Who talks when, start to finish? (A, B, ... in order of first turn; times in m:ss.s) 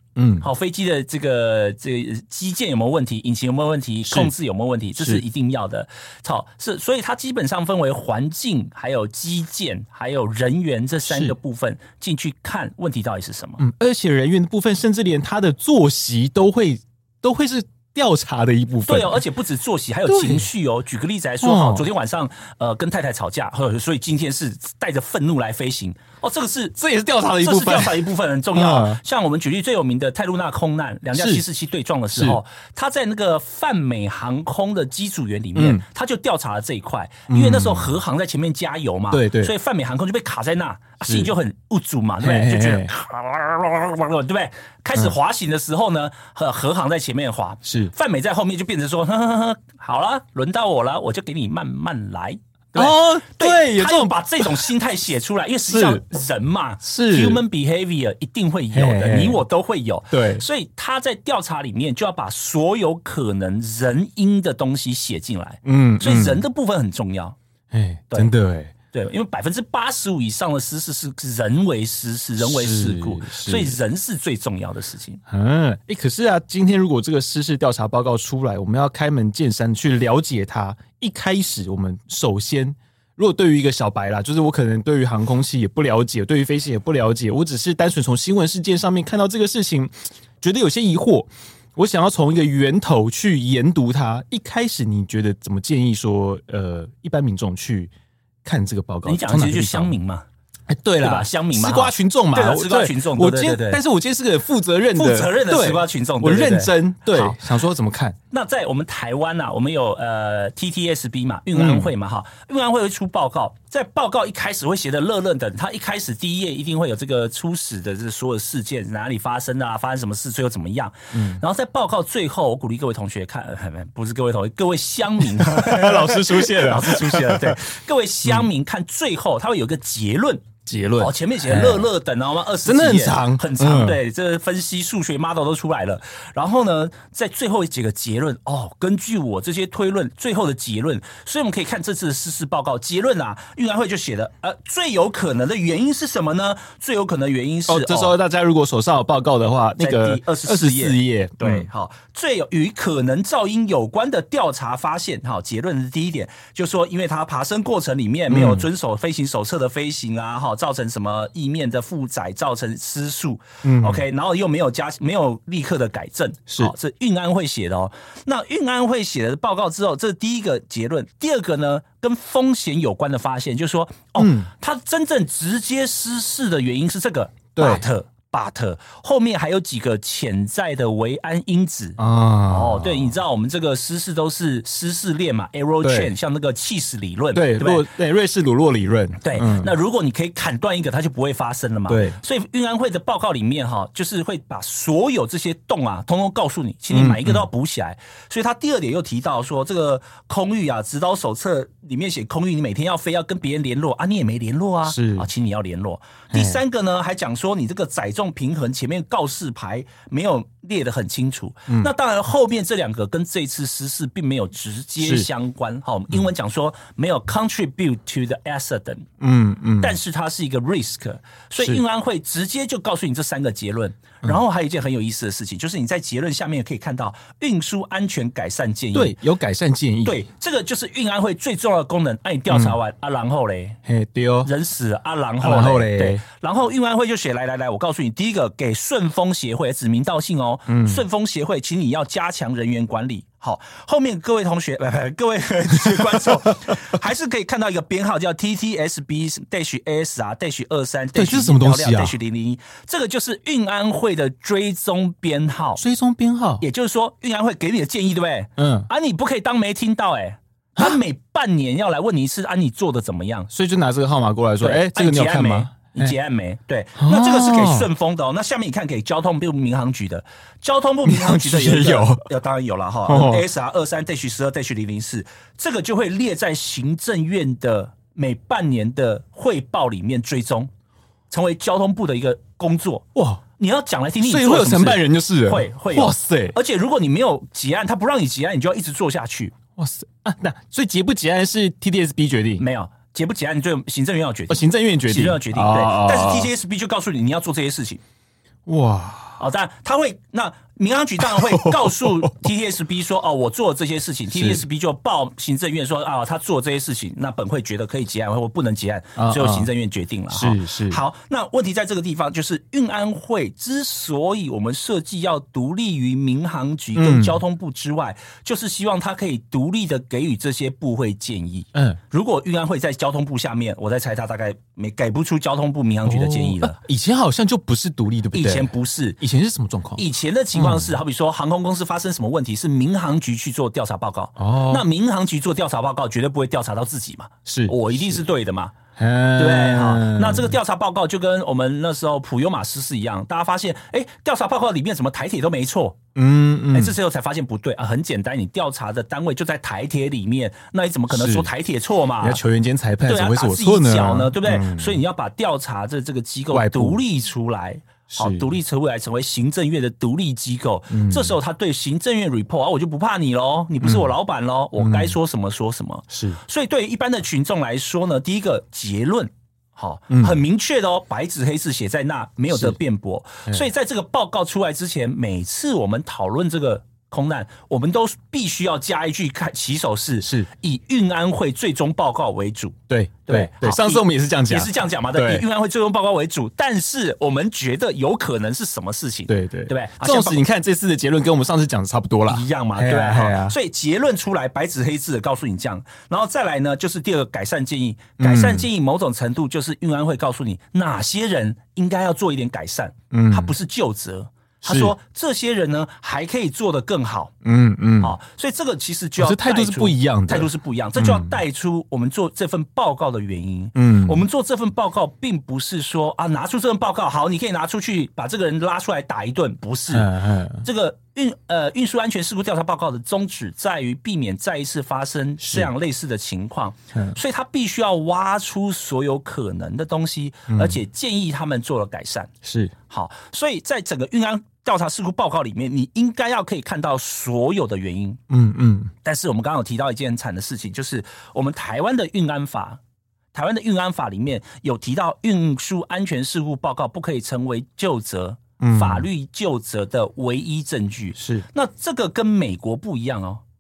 0:00.2-0:00.5 A
0:00.4-0:13.6 B
0:04.1-0:04.3 A
0:05.0-0:05.2 A
0:11.1-0:11.4 A
0:13.6-0:19.2 A
0:18.9-0:26.8 B
0:20.1-0:20.5 A
0:21.4-0:21.9 A
0:26.8-0:29.0 A
0:27.4-1:07.4 B
0:31.1-0:31.4 A
0:32.1-0:32.4 A
0:35.6-0:35.8 A
0:37.3-0:38.0 A
0:39.1-0:39.5 A
0:41.0-0:41.3 A
0:42.2-0:42.9 A
0:47.6-0:47.9 A
0:52.8-0:54.7 A
0:55.7-0:56.0 A
0:56.8-0:57.4 A
0:58.7-0:59.4 A
1:00.1-1:00.4 A
1:05.6-1:06.4 A
1:07.7-1:08.7 A
1:08.9-1:15.2 B
1:12.4-1:13.8 A
1:15.3-1:37.9 A
1:38.4-1:39.9 A
1:39.0-1:40.3 B
1:40.7-1:48.2 A
1:41.0-1:43.8 B
1:45.0-1:47.4 B
1:48.3-2:10.5 B
1:51.6-1:51.9 A
2:01.1-2:01.4 A
2:05.2-2:07.6 A
2:10.7-2:11.9 A
2:11.0-2:28.1 B
2:12.6-2:14.0 A
2:27.7-2:31.7 A
2:29.8-3:07.8 B
2:38.3-2:38.7 A
2:43.6-2:44.0 A
2:54.2-2:54.5 A
2:57.6-2:57.8 A
3:02.0-3:03.2 A
3:05.8-3:06.1 A
3:07.3-3:09.7 A
3:09.2-3:39.1 B
3:11.9-3:12.2 A
3:16.9-3:17.5 A
3:24.9-3:25.3 A
3:26.3-3:26.6 A
3:35.0-3:35.3 A
3:39.2-3:40.0 A
3:39.8-3:49.2 B
3:48.9-3:50.2 A
3:50.0-3:53.8 B
3:52.5-3:52.8 A
3:53.9-3:54.5 A
3:54.4-4:15.8 B
3:55.4-3:56.2 A
4:00.7-4:01.0 A
4:06.0-4:06.7 A
4:11.2-4:12.2 A
4:15.8-4:16.6 A
4:16.6-4:23.5 B
4:18.6-4:18.9 A
4:23.5-4:26.2 A
4:24.6-4:40.7 B
4:27.0-4:27.9 A
4:31.0-4:32.2 A
4:33.1-4:33.4 A
4:41.3-4:43.1 B
4:43.2-4:43.4 A
4:43.6-4:49.6 B
4:44.2-4:46.6 A
4:49.8-4:52.6 A
4:52.6-4:58.0 B
4:54.5-4:56.5 A
4:58.7-4:59.4 A
4:59.4-5:26.8 B
5:01.2-5:02.5 A
5:04.3-5:04.6 A
5:09.2-5:09.7 A
5:10.3-5:11.0 A
5:17.0-5:17.4 A
5:21.8-5:22.0 A
5:26.0-5:31.0 A
5:28.3-5:29.2 B
5:30.0-5:38.8 B
5:34.4-5:34.8 A
5:37.5-5:38.2 A
5:39.0-5:40.6 A
5:39.4-5:46.0 B
5:46.2-5:47.0 A
5:46.7-5:52.4 B
5:51.1-5:51.5 A
5:52.2-5:55.0 A
5:53.1-6:30.4 B
5:56.5-5:57.0 A
5:58.1-5:58.5 A
6:00.9-6:01.4 A
6:03.8-6:04.1 A
6:04.8-6:05.2 A
6:06.1-6:06.4 A
6:10.1-6:10.4 A
6:20.2-6:20.5 A
6:22.9-6:25.4 A
6:29.3-6:33.6 A
6:32.3-6:47.3 B
6:38.2-6:38.7 A
6:43.1-6:43.6 A
6:44.6-6:45.0 A
6:47.4-6:48.2 A
6:48.0-7:12.3 B
6:49.2-6:51.4 A
6:53.8-6:54.3 A
6:59.9-7:00.6 A
7:05.4-7:05.7 A
7:10.5-7:10.8 A
7:12.4-7:12.7 A
7:12.9-7:18.2 B
7:18.3-7:18.9 A
7:19.0-7:22.8 B
7:23.3-7:33.4 B
7:28.6-7:29.1 A
7:31.2-7:31.4 A